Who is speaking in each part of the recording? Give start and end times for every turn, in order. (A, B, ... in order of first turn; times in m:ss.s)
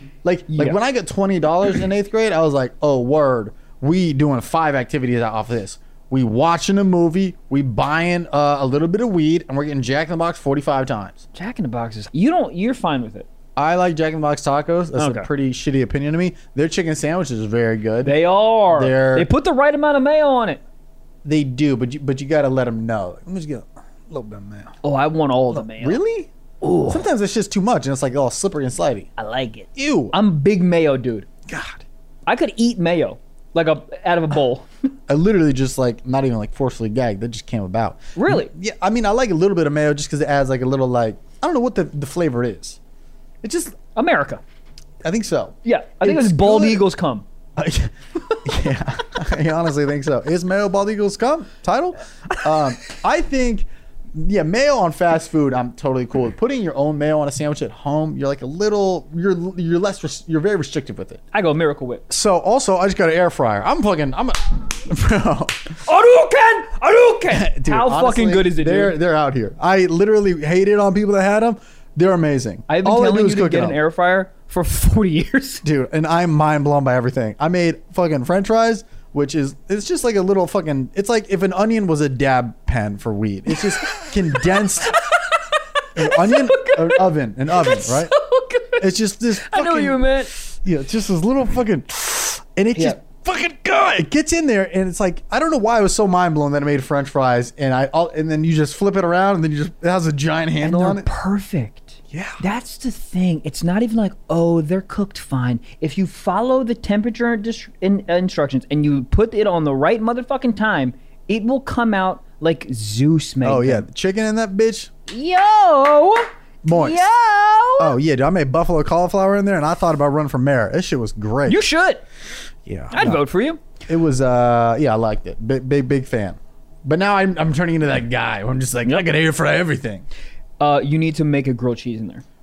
0:00.2-0:11.2 A
0:11.3-0:13.3 B
0:13.6-0:18.2 A
0:15.0-0:15.3 B
0:18.0-0:20.6 B
0:18.7-0:19.3 A
0:21.2-0:24.8 A
0:24.8-0:26.0 B
0:25.5-0:26.3 A
0:26.6-0:27.1 B
0:26.9-0:29.1 A
0:29.2-0:31.3 B
0:29.8-0:30.2 A
0:31.5-0:31.8 A
0:32.3-0:34.7 B
0:35.1-0:42.8 A
0:38.2-0:38.5 B
0:43.4-0:43.8 A
0:44.0-0:44.4 B
0:45.0-0:46.8 A
0:45.6-0:47.3 B
0:47.6-1:01.2 A
1:01.3-1:02.0 B
1:02.1-1:05.7 A
1:05.8-1:09.0 B
1:07.3-1:13.8 A
1:12.7-1:15.6 B
1:15.6-1:25.0 A
1:23.6-1:30.3 B
1:26.0-1:28.1 A
1:28.8-1:41.1 A
1:40.6-1:53.9 B
1:42.1-1:42.4 A
1:53.4-1:54.9 A
1:55.1-1:58.0 B
1:56.6-1:57.1 A
1:57.8-2:01.6 A
2:01.5-2:02.0 B
2:02.7-2:03.2 A
2:02.9-2:03.6 B
2:03.9-2:10.0 A
2:10.6-2:12.2 B